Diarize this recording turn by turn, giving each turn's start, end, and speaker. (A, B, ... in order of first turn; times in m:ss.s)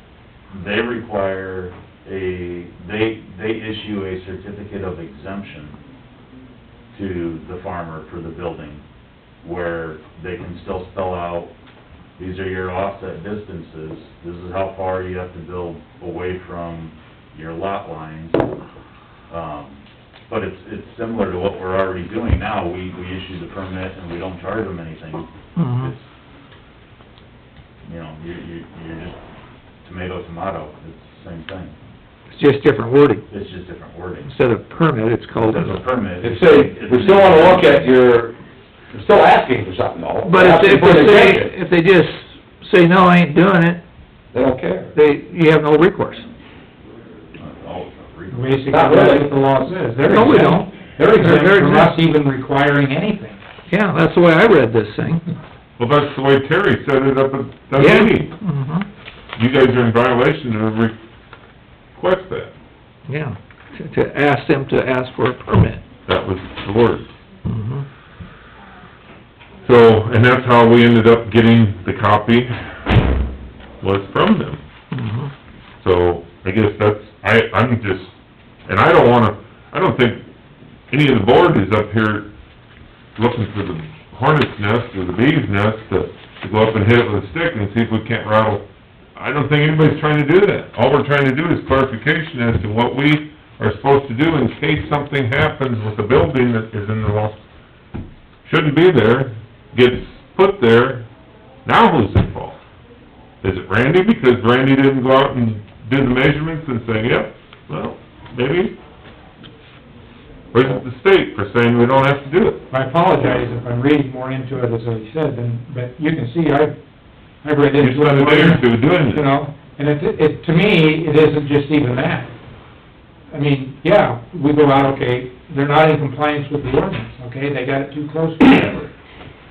0:00.5-0:05.8 A
0:06.9-0:08.8 A
0:09.4-0:11.5 A
0:12.2-0:18.4 A
0:19.3-0:25.3 A
0:25.6-0:25.9 B
0:27.8-0:29.2 A
0:29.8-0:31.7 A
0:32.3-0:33.2 B
0:33.3-0:34.3 A
0:34.2-0:35.8 B
0:35.4-0:37.9 A
0:36.2-0:38.4 C
0:38.9-0:41.5 C
0:40.2-0:43.8 B
0:44.3-0:44.9 C
0:44.9-0:46.3 B
0:47.4-0:48.6 A
0:48.3-0:53.4 D
0:48.7-0:49.3 C
0:50.0-0:51.9 B
0:53.7-0:55.3 B
0:55.8-0:58.3 E
0:57.7-0:58.9 B
0:59.4-1:01.0 E
1:01.9-1:02.5 E
1:03.1-1:05.8 B
1:06.0-1:07.1 E
1:07.4-1:07.8 B
1:09.6-1:13.0 E
1:13.8-1:14.6 E
1:14.9-1:15.3 B
1:15.8-1:18.1 E
1:18.6-1:20.2 E
1:20.9-1:22.3 E
1:23.2-1:28.6 E
1:29.2-1:37.4 E
1:38.4-1:41.0 E
1:41.6-1:42.6 E
1:43.4-1:48.7 E
1:50.5-1:52.6 E
1:52.7-1:56.7 D
1:57.4-2:02.3 D
1:57.8-1:59.3 E
2:03.3-2:08.9 D